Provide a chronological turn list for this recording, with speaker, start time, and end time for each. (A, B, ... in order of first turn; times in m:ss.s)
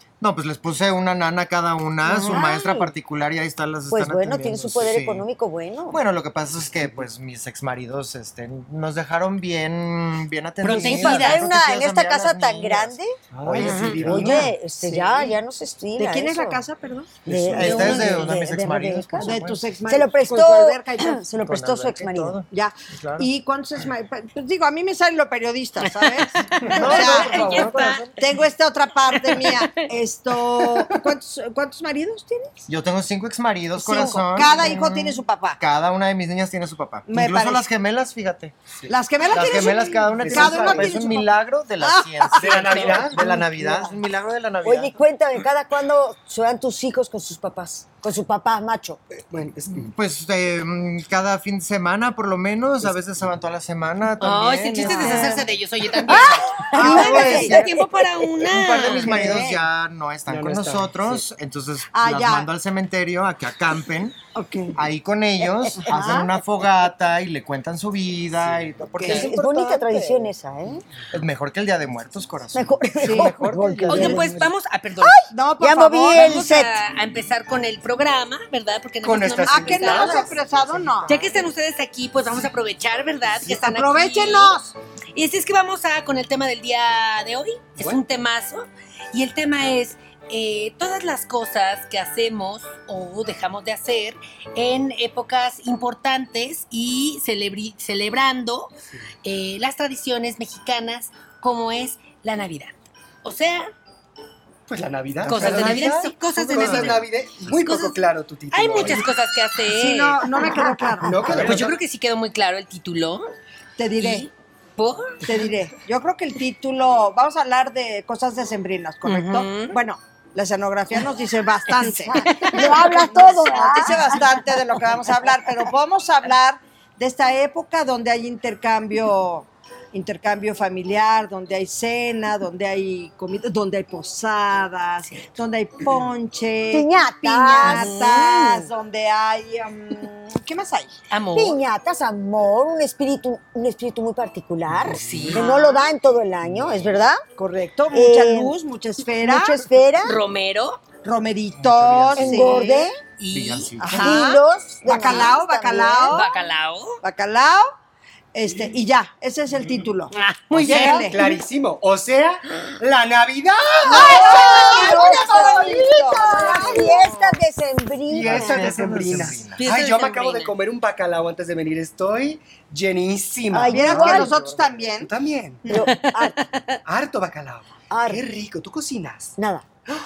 0:00.2-0:05.2 A
0:02.0-0:02.4 B
0:02.3-0:02.9 C
0:03.9-0:06.0 C
0:05.9-0:14.4 A
0:10.6-0:11.4 B
0:10.7-0:16.6 C
0:13.3-0:15.2 D
0:13.6-0:14.3 B
0:14.9-0:15.3 E
0:16.0-0:17.2 E
0:17.2-0:22.4 C
0:17.3-0:17.8 D
0:17.3-0:19.6 A
0:17.6-0:18.3 B
0:19.2-0:21.2 E
0:21.4-0:23.3 A
0:22.5-0:32.6 E
0:25.8-0:28.1 B
0:26.6-0:28.2 A
0:29.1-0:29.6 B
0:32.7-0:38.5 A
0:33.8-0:35.6 E
0:37.1-0:37.6 E
0:38.9-0:41.3 E
0:39.3-0:44.9 A
0:39.5-0:40.9 D
0:41.8-0:43.4 E
0:42.3-0:43.3 D
0:43.2-0:43.9 C
0:44.6-0:49.0 C
0:49.2-0:49.9 D
0:49.7-0:55.5 A
0:54.2-0:59.3 B
0:54.8-0:57.6 E
0:56.1-0:58.1 C
0:56.7-0:57.6 A
0:58.4-1:04.2 A
0:59.0-0:59.6 E
1:00.3-1:01.2 D
1:01.9-1:02.5 E
1:04.3-1:04.8 E
1:04.7-1:10.2 A
1:05.6-1:06.1 C
1:05.8-1:06.3 E
1:08.5-1:08.8 D
1:08.9-1:09.4 E
1:09.0-1:10.8 C
1:11.1-1:14.4 A
1:12.5-1:14.5 C
1:13.0-1:13.4 E
1:13.9-1:15.2 B
1:13.9-1:14.2 E
1:15.0-1:16.5 E
1:15.6-1:16.7 C
1:16.1-1:20.3 B
1:19.0-1:20.4 D
1:19.4-1:21.2 E
1:20.2-1:21.3 A
1:21.1-1:24.6 B
1:23.4-1:24.7 E
1:25.1-1:38.7 B
1:39.2-1:43.7 B
1:44.7-1:49.1 D
1:45.2-1:47.0 A
1:45.3-1:48.0 B
1:48.5-1:50.3 B
1:49.6-1:51.3 E
1:50.6-1:51.1 C
1:51.0-1:51.8 D
1:51.2-1:53.2 B
1:51.2-1:51.7 A
1:53.8-1:54.3 E
1:54.0-1:55.2 B
1:55.2-2:20.9 E
1:59.0-1:59.8 B
2:01.8-2:04.2 B
2:02.0-2:04.4 C
2:16.7-2:18.7 C
2:17.6-2:18.4 B
2:21.1-2:21.6 B
2:21.3-2:27.2 C
2:24.9-2:25.8 B
2:24.9-2:25.4 D
2:27.4-2:29.6 E
2:27.9-2:28.6 C
2:29.2-2:30.2 C
2:30.0-2:30.8 B
2:31.0-2:32.9 E
2:31.6-2:32.6 A
2:32.1-2:32.9 C
2:33.2-2:33.7 B
2:33.3-2:34.2 A
2:33.8-2:36.3 E
2:33.8-2:36.3 C
2:36.1-2:37.0 B
2:37.0-2:37.7 E
2:38.3-2:41.2 E
2:40.1-2:41.1 B
2:40.5-2:44.8 D
2:43.8-2:48.7 C
2:43.8-2:47.3 E
2:44.7-2:45.1 B
2:48.1-2:54.2 D
2:48.2-2:49.6 A
2:49.6-2:50.5 B
2:53.5-2:54.3 C
2:53.7-2:55.1 E
2:53.7-2:54.8 A
2:55.0-2:55.6 D
2:55.6-2:56.4 C
2:55.7-2:56.8 B
2:56.8-2:59.3 D
2:57.9-2:58.2 C
2:59.4-2:59.7 C